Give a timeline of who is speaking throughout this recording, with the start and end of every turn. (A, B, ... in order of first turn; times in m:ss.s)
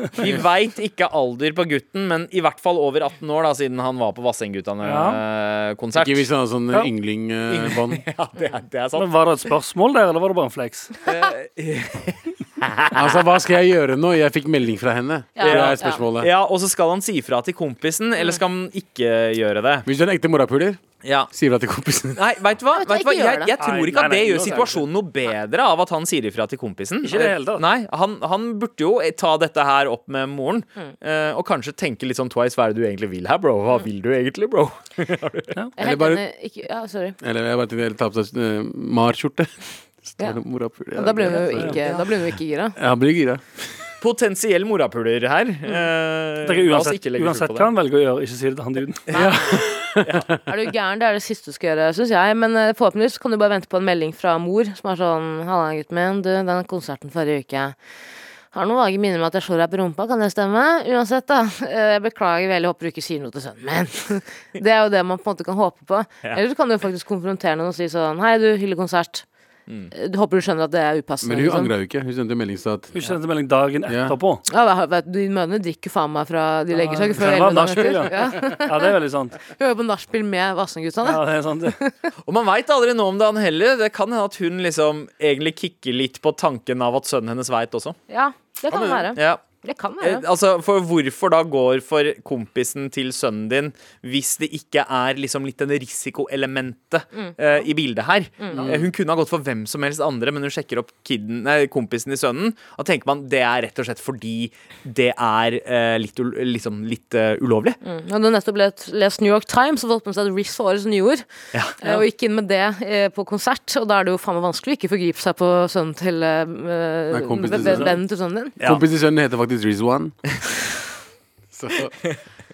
0:00.2-0:06.3 A
0:04.8-0:05.2 B
0:05.9-0:08.0 C
0:07.5-0:09.1 A
0:09.0-0:11.0 B
0:11.0-0:13.1 A
0:12.9-0:16.3 C
0:15.4-0:16.0 D
0:15.4-0:19.9 A
0:19.8-0:22.2 C
0:21.0-0:21.3 A
0:22.1-0:35.5 A
0:22.7-0:23.6 D
0:23.6-0:24.8 B
0:27.0-0:27.6 B
0:35.8-0:37.2 D
0:35.8-0:36.2 C
0:37.2-0:42.0 C
0:40.9-0:42.8 D
0:41.5-0:41.8 B
0:42.8-0:43.4 C
0:44.0-0:47.7 A
0:46.4-0:49.1 B
0:49.1-0:49.3 A
0:49.1-0:50.3 C
0:49.1-0:49.6 D
0:50.0-0:50.3 A
0:50.4-0:57.8 D
0:58.5-1:09.2 D
1:09.9-1:11.7 D
1:11.2-1:12.9 C
1:12.9-1:14.4 B
1:13.9-1:14.2 C
1:14.5-1:18.9 D
1:16.7-1:19.4 B
1:19.5-1:22.0 D
1:21.0-1:21.8 B
1:22.2-1:28.0 A
1:28.1-1:30.2 D
1:28.7-1:29.0 C
1:29.1-1:29.4 A
1:30.0-1:47.8 A
1:38.4-1:38.7 D
1:38.5-1:38.8 B
1:47.8-1:51.2 D
1:51.8-1:58.6 D
1:57.1-1:58.0 C
1:57.5-1:57.9 B
1:58.6-2:00.2 C
2:01.5-2:02.1 C